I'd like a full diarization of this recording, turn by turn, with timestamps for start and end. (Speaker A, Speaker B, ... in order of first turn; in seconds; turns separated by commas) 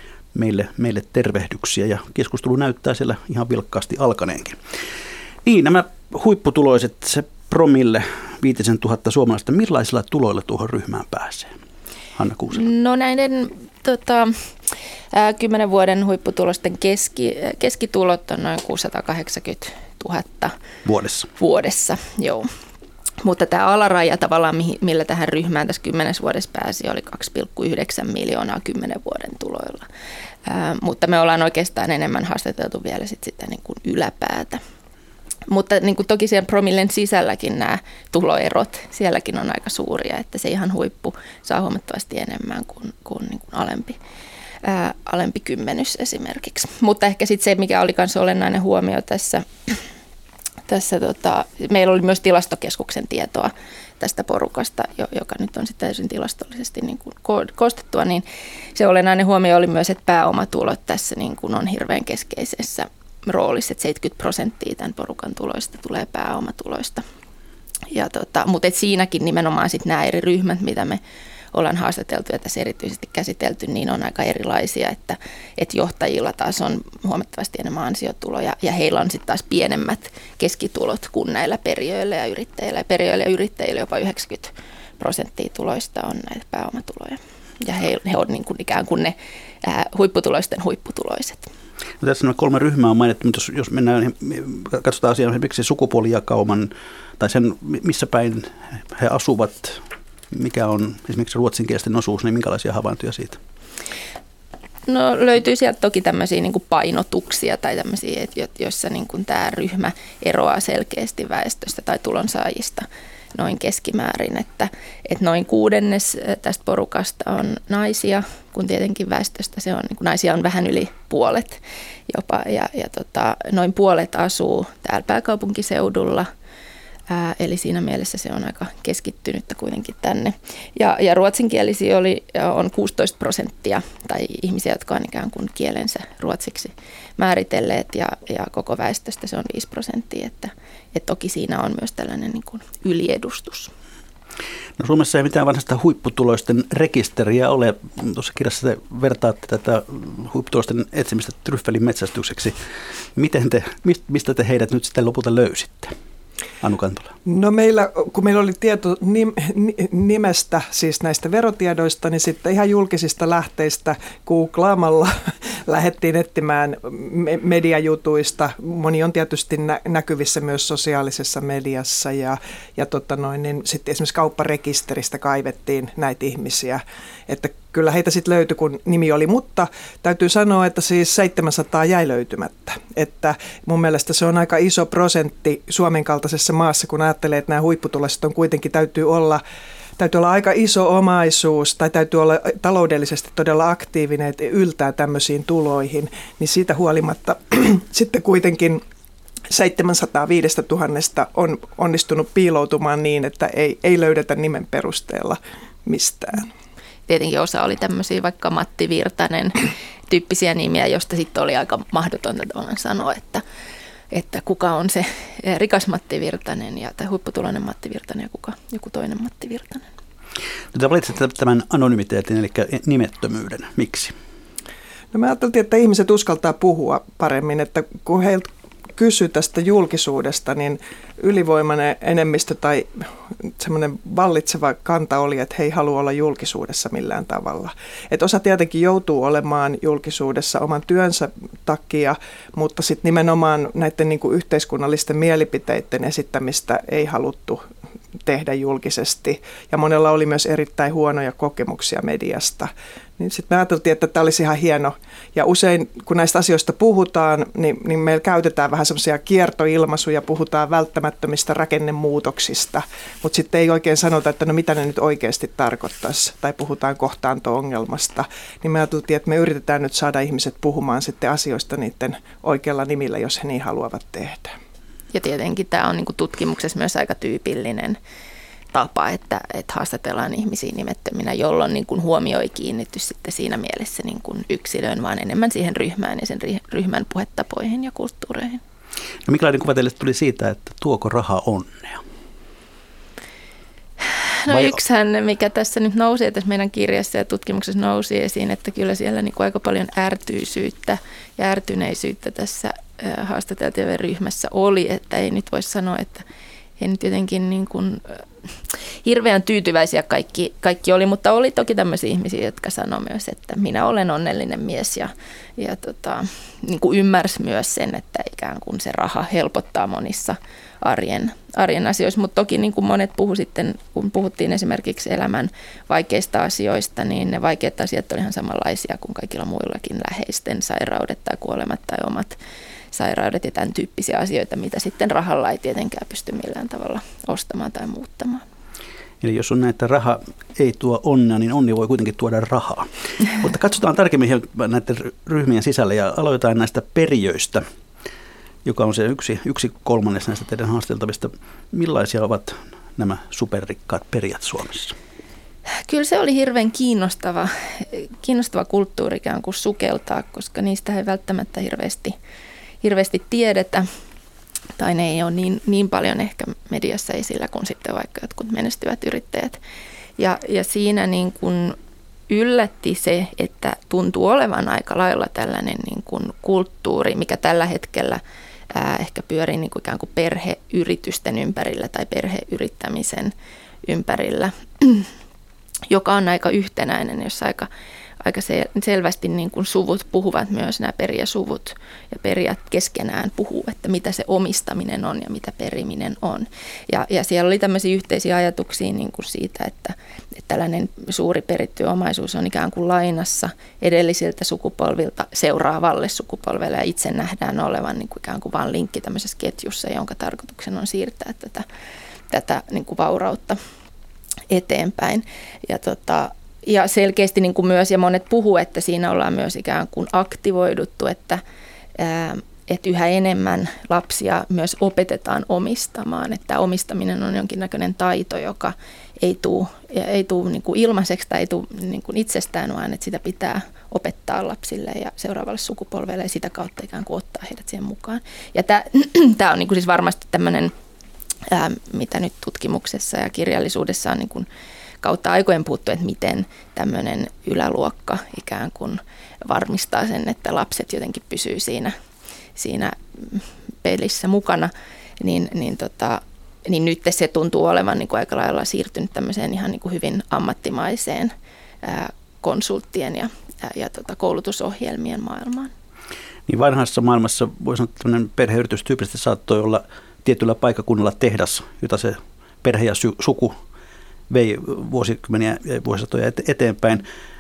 Speaker A: 0.3-4.6, Speaker A: 5.4-11.5, Speaker A: 12.2-12.6, Speaker B: 12.5-14.4, Speaker B: 15.1-20.5, Speaker A: 20.9-21.3, Speaker B: 21.4-22.5, Speaker B: 23.2-29.9, Speaker B: 30.5-34.6, Speaker B: 35.5-44.0, Speaker B: 44.6-49.8, Speaker B: 50.7-67.0, Speaker B: 67.9-71.0, Speaker B: 71.5-91.5, Speaker A: 92.0-103.4, Speaker B: 104.9-126.3, Speaker B: 127.1-143.7, Speaker A: 144.8-152.6, Speaker A: 153.2-155.9, Speaker A: 156.6-157.1, Speaker C: 157.3-165.2, Speaker C: 165.7-189.4, Speaker C: 190.0-198.8, Speaker C: 199.5-206.5, Speaker B: 207.1-213.4, Speaker B: 214.1-219.9, Speaker A: 220.7-224.1, Speaker C: 225.1-233.0, Speaker C: 233.6-247.6, Speaker C: 248.2-274.6, Speaker B: 275.1-278.0, Speaker B: 278.7-288.6, Speaker A: 289.3-292.0, Speaker B: 294.4-306.2, Speaker A: 294.5-294.8, Speaker B: 306.8-308.2, Speaker B: 309.0-332.4, Speaker B: 332.9-338.4, Speaker A: 339.2-347.6, Speaker A: 348.6-355.0, Speaker B: 355.9-362.1, Speaker B: 362.8-363.9, Speaker B: 364.8-369.6, Speaker B: 370.2-371.8, Speaker B: 372.3-378.2, Speaker B: 378.7-383.3, Speaker B: 383.8-385.1, Speaker B: 385.9-387.7, Speaker B: 388.2-411.6, Speaker B: 412.3-413.6, Speaker B: 414.5-421.4, Speaker B: 422.0-440.7, Speaker B: 441.5-444.5, Speaker B: 445.0-451.9, Speaker B: 452.6-461.3, Speaker B: 461.8-465.7, Speaker A: 466.5-473.6, Speaker A: 474.3-477.1